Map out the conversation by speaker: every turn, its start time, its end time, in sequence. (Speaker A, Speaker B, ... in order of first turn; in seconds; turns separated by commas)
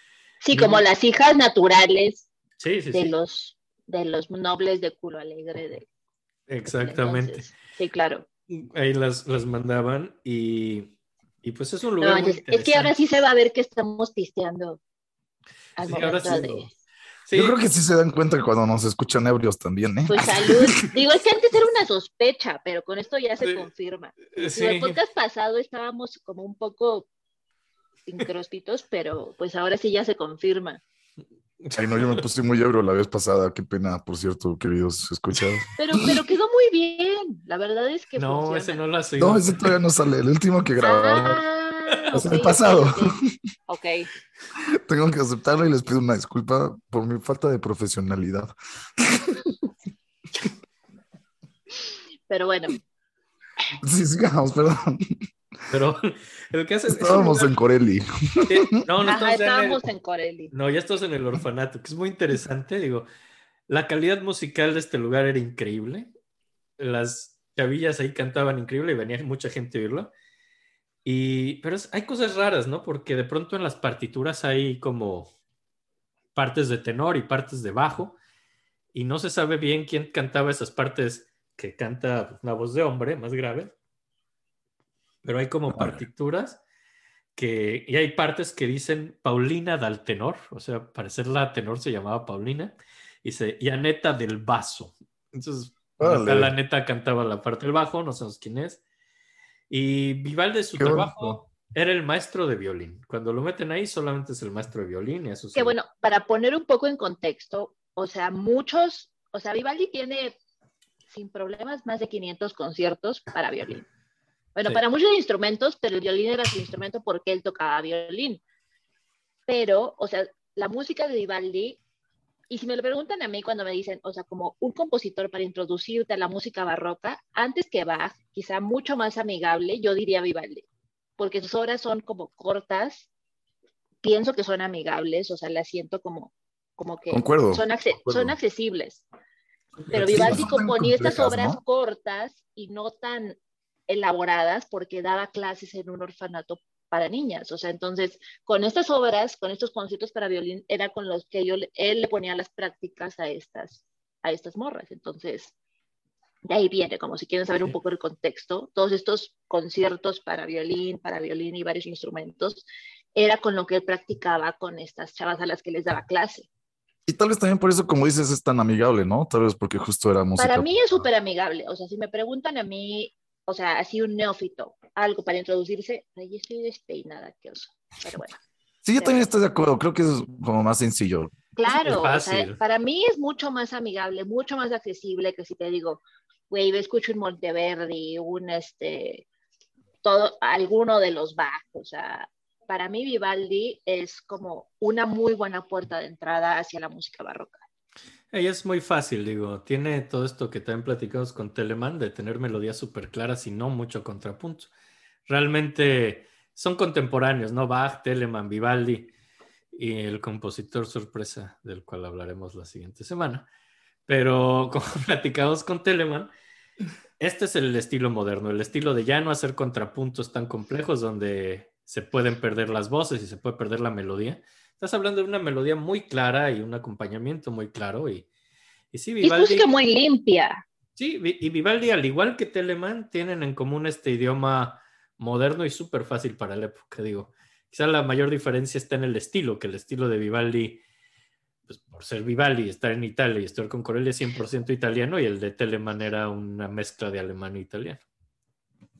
Speaker A: 0.4-2.2, Speaker B: 0.5-0.8, Speaker B: 2.6-3.1, Speaker A: 2.9-5.8, Speaker B: 6.5-7.5, Speaker A: 6.8-8.2, Speaker B: 8.5-12.9, Speaker A: 12.0-14.8, Speaker A: 15.8-16.7, Speaker B: 15.8-16.7, Speaker B: 17.2-17.6, Speaker C: 17.3-20.5, Speaker A: 20.1-27.1, Speaker B: 23.4-23.7, Speaker B: 24.4-25.0, Speaker A: 28.1-30.8, Speaker B: 31.6-32.2, Speaker C: 31.7-35.7, Speaker A: 35.8-38.8, Speaker B: 38.1-39.8, Speaker C: 39.2-41.4, Speaker A: 40.8-44.1, Speaker C: 42.1-43.3, Speaker C: 44.6-49.5, Speaker A: 51.8-52.8, Speaker C: 53.8-55.2, Speaker B: 55.7-57.5, Speaker C: 56.9-58.7, Speaker B: 58.5-59.9, Speaker A: 59.0-60.5, Speaker B: 60.5-63.0, Speaker B: 63.7-66.1, Speaker B: 66.8-70.1, Speaker B: 71.0-75.3, Speaker B: 76.3-78.2, Speaker B: 78.9-83.7, Speaker B: 85.2-86.6, Speaker C: 85.7-86.0, Speaker B: 87.3-98.8, Speaker C: 96.0-96.5, Speaker B: 99.7-105.8, Speaker C: 100.8-101.4, Speaker A: 105.5-110.3, Speaker A: 111.1-113.9, Speaker A: 114.5-118.4, Speaker A: 119.5-121.8, Speaker A: 122.5-130.7, Speaker A: 131.2-133.1, Speaker A: 134.0-139.0, Speaker C: 137.1-138.3, Speaker B: 139.8-140.4, Speaker A: 139.9-155.5, Speaker C: 139.9-141.6, Speaker A: 156.5-166.5, Speaker C: 167.1-170.7, Speaker A: 170.4-178.3, Speaker C: 178.8-181.3, Speaker A: 179.0-179.3, Speaker A: 181.6-189.3, Speaker B: 181.6-182.6, Speaker A: 190.0-197.6, Speaker B: 198.3-204.7, Speaker B: 205.2-209.1, Speaker B: 209.7-213.5, Speaker B: 214.1-216.3, Speaker B: 217.2-228.3, Speaker B: 228.9-229.7, Speaker A: 229.2-230.6, Speaker B: 231.0-240.8, Speaker B: 241.7-248.0